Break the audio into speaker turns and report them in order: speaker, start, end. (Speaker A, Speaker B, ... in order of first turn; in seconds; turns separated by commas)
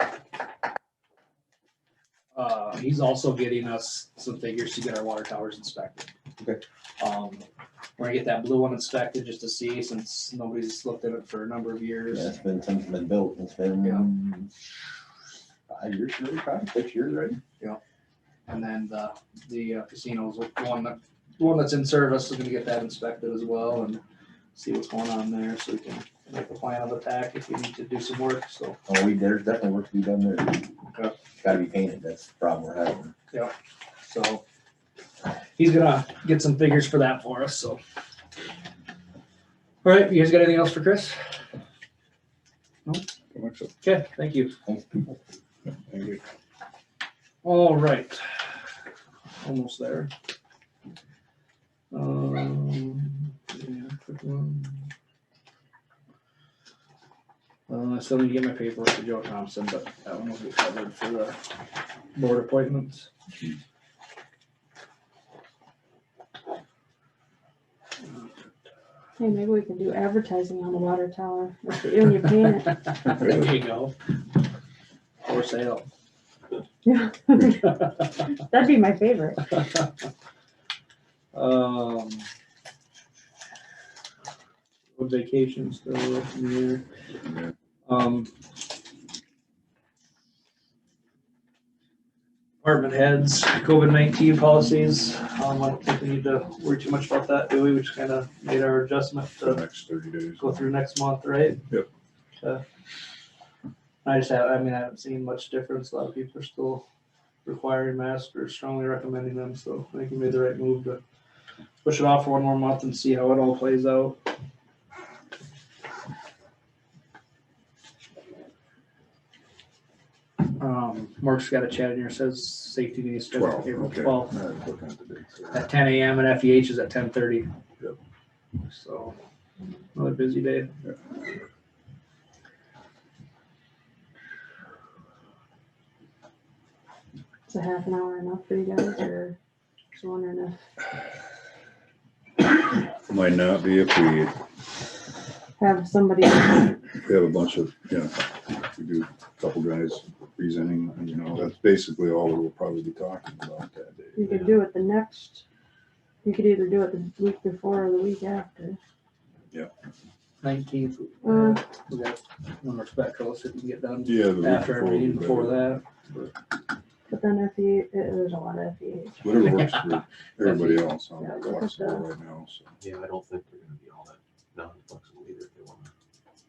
Speaker A: 2.3-6.1, Speaker A: 7.0-7.4, Speaker A: 8.0-12.3, Speaker B: 12.1-14.5, Speaker B: 15.7-17.4, Speaker A: 18.5-24.0, Speaker A: 24.5-28.8, Speaker B: 28.9-30.7, Speaker B: 31.4-33.1, Speaker A: 33.3-34.4, Speaker A: 35.6-37.8, Speaker A: 39.8-41.2, Speaker C: 43.3-43.7, Speaker A: 43.8-44.5, Speaker B: 44.6-45.0, Speaker C: 45.9-46.2, Speaker A: 47.4-48.2, Speaker A: 49.4-50.1, Speaker A: 51.9-54.8, Speaker A: 57.7-61.4, Speaker A: 62.1-63.1, Speaker A: 68.0-68.5, Speaker D: 69.2-72.8, Speaker A: 73.0-74.0, Speaker A: 75.2-75.9, Speaker D: 76.8-79.6, Speaker A: 81.3-82.3, Speaker A: 85.0-86.8, Speaker A: 87.8-88.3, Speaker A: 92.6-99.6, Speaker C: 99.4-100.5, Speaker A: 100.4-101.6, Speaker A: 104.0-106.8, Speaker A: 107.4-111.0, Speaker A: 111.8-114.2, Speaker A: 120.6-124.3, Speaker C: 123.3-125.7, Speaker A: 125.5-127.5, Speaker A: 128.6-129.2, Speaker A: 129.9-130.7, Speaker D: 137.5-139.3, Speaker D: 139.9-140.6, Speaker C: 143.1-144.3, Speaker D: 145.6-146.8, Speaker C: 147.0-154.3, Speaker D: 154.2-155.4, Speaker E: 154.3-154.5, Speaker D: 156.2-158.8, Speaker A: 160.4-166.3, Speaker D: 161.2-161.6, Speaker C: 164.1-165.7, Speaker D: 167.1-169.3, Speaker C: 169.2-172.7, Speaker A: 170.4-170.8, Speaker D: 171.2-172.0, Speaker E: 172.8-175.9